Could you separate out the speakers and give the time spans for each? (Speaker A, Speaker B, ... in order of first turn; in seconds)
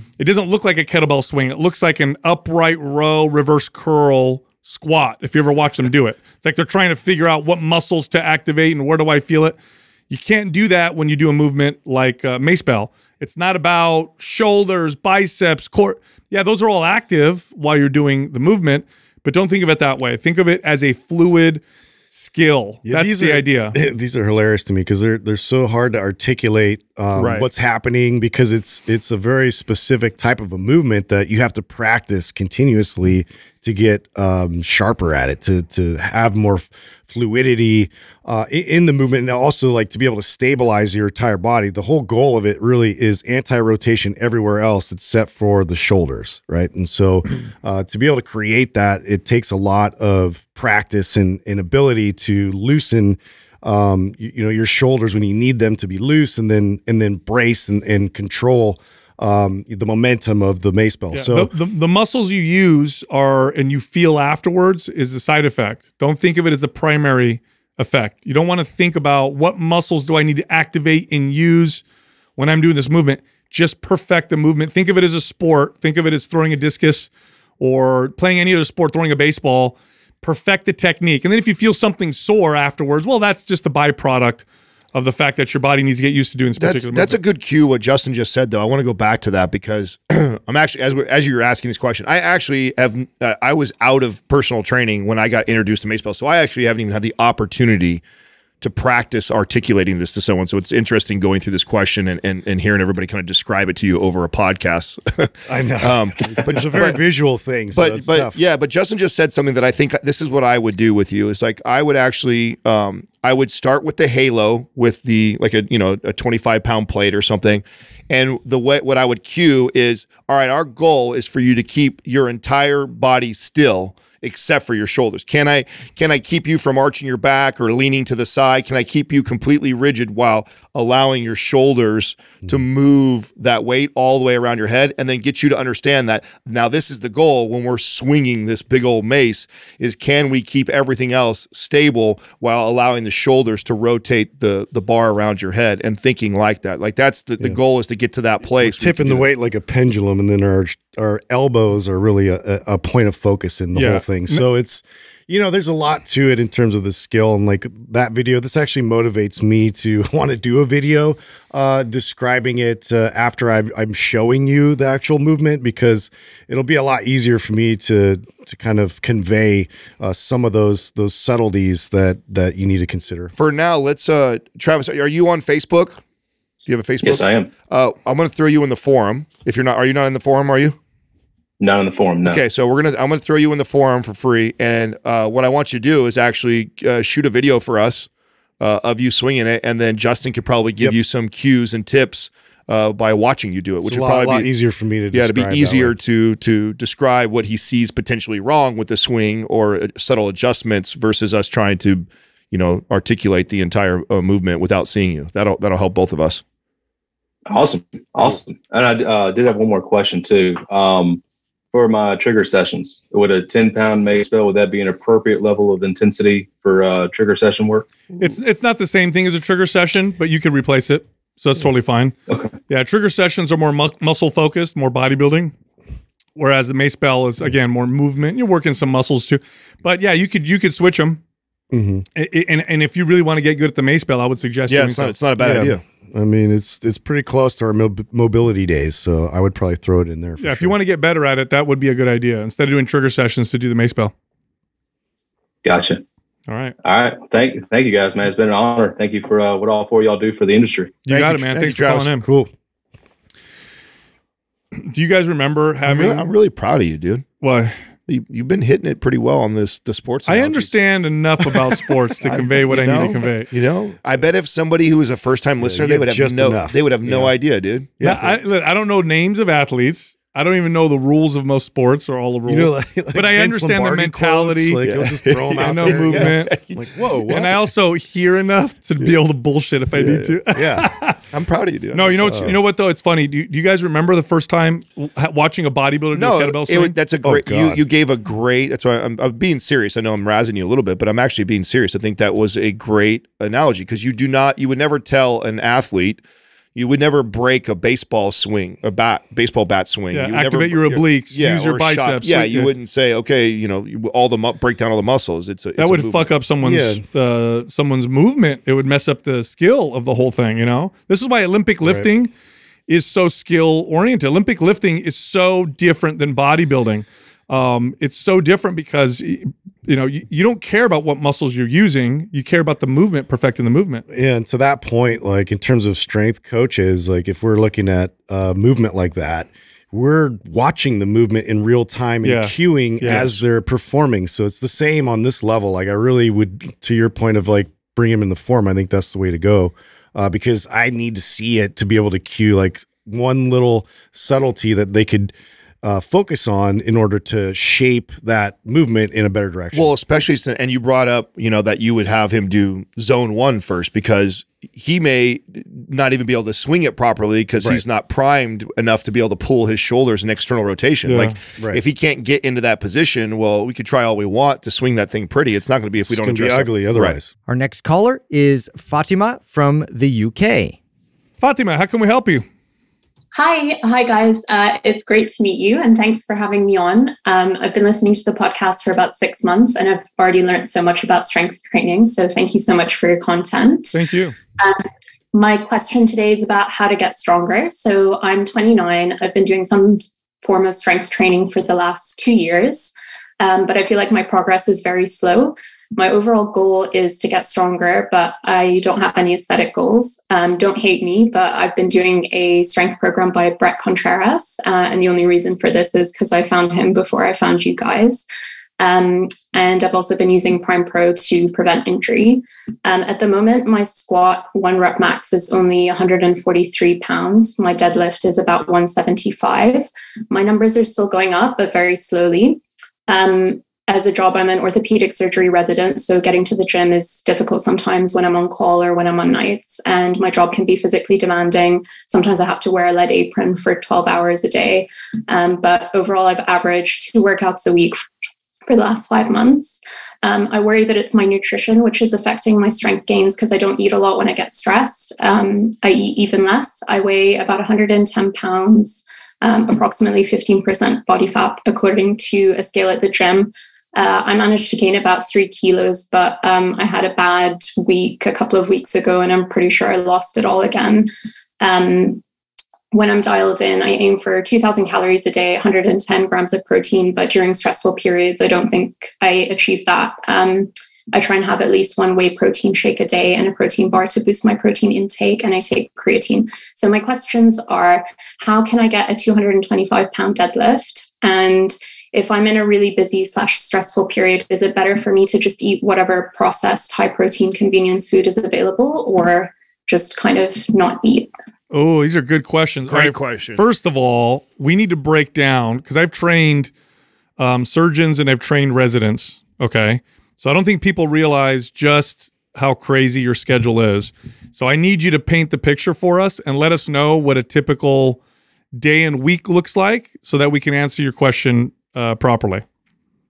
Speaker A: 0.2-9.6, 10.1-23.8, 61.1-71.8, 72.4-87.2, 153.7-154.4, 218.2-222.1, 222.7-225.5, 226.3-231.2, 232.1-235.7, 240.4-244.1, 246.5-246.7, 251.1-252.2, 254.8-256.3, 257.4-257.8, 260.3-263.5, 268.0-274.8, 275.6-276.6, 277.3-281.2, 281.9-286.9, 300.1-302.7, 305.8-312.3, 312.9-324.1, 332.2-333.3, 361.1-361.4, 371.4-372.4, 383.9-384.3, 491.7-496.7, 497.4-508.2, 508.7-512.6
Speaker B: 22.8-61.5, 105.5-108.4, 148.6-173.3, 193.8-196.0, 231.7-232.0, 235.4-240.7, 252.2-252.5, 265.6-267.3, 268.0-268.4, 272.5-277.6, 280.0-280.9, 287.2-287.8, 306.6-307.0, 311.8-312.1, 324.1-349.9, 366.1-367.3
Speaker C: 27.1-27.5, 86.6-98.0, 98.6-107.0, 107.7-149.3, 173.3-176.0, 176.7-180.8, 182.2-188.1, 188.6-194.5, 195.1-206.4, 234.7-235.8, 251.1-252.1, 255.9-257.2, 258.1-260.8, 261.4-267.9, 274.8-276.8, 281.3-282.6, 286.1-296.2, 296.7-306.3, 333.0-333.4, 349.7-367.2, 492.9-493.6
Speaker D: 177.0-177.5, 181.6-182.4, 207.5-211.2, 211.7-217.9, 222.3-222.6, 245.6-246.0, 246.8-251.0
Speaker E: 367.5-370.8
Speaker F: 373.3-384.0, 384.6-408.2, 408.8-438.0, 438.7-461.1, 461.6-462.2, 462.9-491.3